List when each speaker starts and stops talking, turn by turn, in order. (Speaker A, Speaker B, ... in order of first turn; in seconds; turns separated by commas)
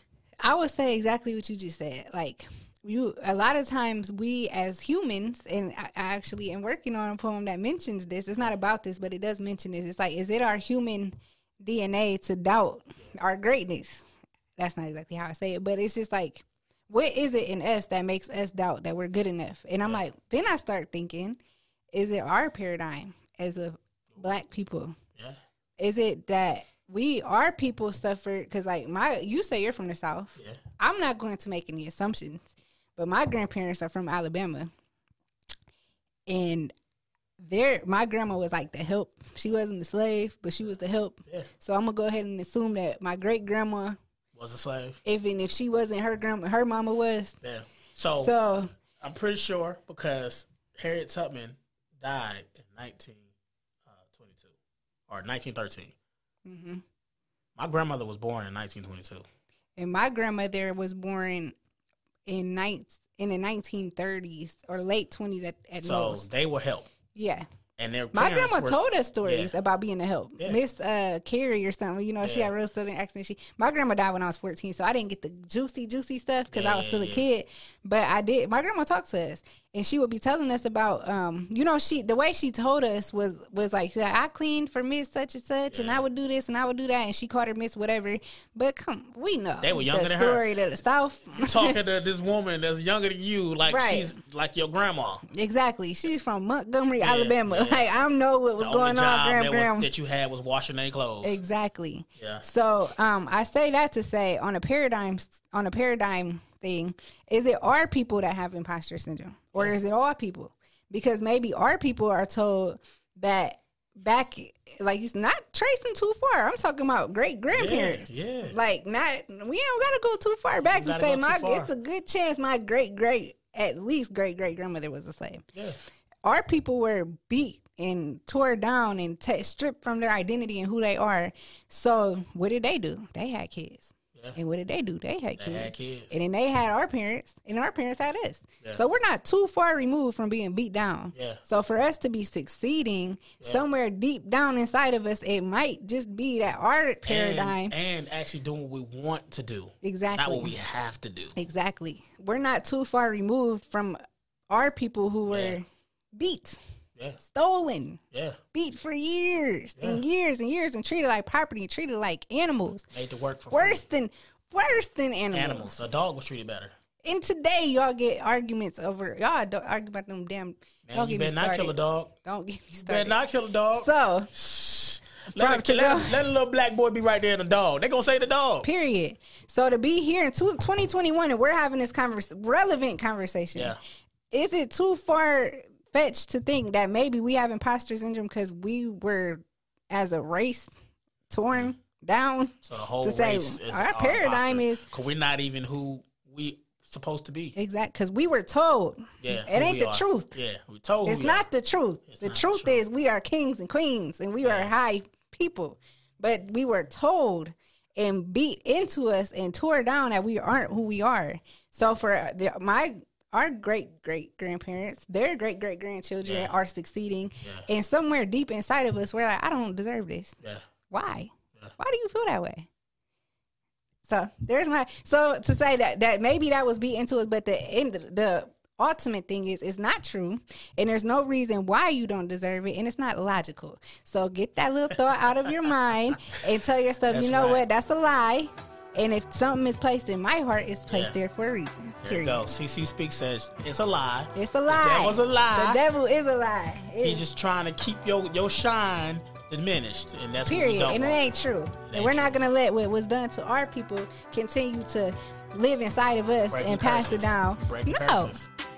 Speaker A: 0.4-14.0, Speaker A: 14.6-21.4, Speaker A: 21.9-25.0, Speaker A: 25.8-34.7, Speaker A: 36.3-36.7, Speaker A: 37.4-44.0, Speaker B: 44.3-45.0, Speaker A: 45.0-47.4, Speaker B: 47.4-53.3, Speaker A: 48.1-48.7, Speaker B: 53.9-54.5, Speaker B: 55.1-56.0, Speaker A: 56.5-56.8, Speaker B: 57.6-59.2, Speaker A: 59.8-61.5, Speaker A: 62.3-66.3, Speaker B: 65.8-66.9, Speaker A: 67.1-67.5, Speaker B: 67.8-69.5, Speaker A: 68.1-91.8, Speaker B: 72.2-72.5, Speaker B: 76.5-77.3, Speaker B: 85.7-86.0, Speaker B: 89.6-90.5, Speaker B: 91.3-95.2, Speaker A: 93.7-94.2, Speaker A: 95.3-99.9, Speaker B: 97.0-97.9, Speaker B: 98.6-101.4, Speaker A: 101.2-125.5, Speaker B: 102.2-102.5, Speaker B: 117.5-118.6, Speaker B: 120.6-121.7, Speaker A: 126.2-147.7, Speaker B: 135.4-136.1, Speaker B: 141.1-141.4, Speaker B: 143.4-143.7, Speaker B: 147.1-151.4, Speaker A: 149.8-150.5, Speaker A: 151.3-154.0, Speaker A: 154.5-155.7, Speaker B: 155.3-155.6, Speaker A: 156.2-156.6, Speaker B: 157.0-157.2, Speaker A: 157.3-158.0, Speaker B: 158.1-158.4, Speaker A: 158.5-162.9, Speaker B: 159.8-160.0, Speaker B: 162.9-163.8, Speaker A: 163.5-165.8, Speaker B: 165.3-166.8, Speaker A: 167.0-173.2, Speaker B: 170.8-172.1, Speaker B: 172.8-178.7, Speaker A: 173.7-174.3, Speaker A: 175.3-176.2, Speaker A: 178.6-183.8, Speaker A: 184.3-190.7, Speaker A: 191.3-194.9, Speaker B: 192.6-197.6, Speaker A: 197.6-200.4, Speaker B: 199.2-201.5, Speaker A: 201.1-220.4, Speaker B: 202.1-202.8, Speaker B: 204.4-204.7, Speaker B: 216.2-216.5, Speaker B: 217.4-217.7, Speaker A: 220.9-222.7, Speaker A: 224.0-242.5, Speaker B: 237.1-237.6, Speaker B: 240.9-241.2, Speaker B: 242.0-245.8, Speaker A: 244.3-247.2, Speaker B: 247.0-251.2, Speaker A: 250.4-258.4, Speaker B: 251.8-252.3, Speaker B: 256.5-258.5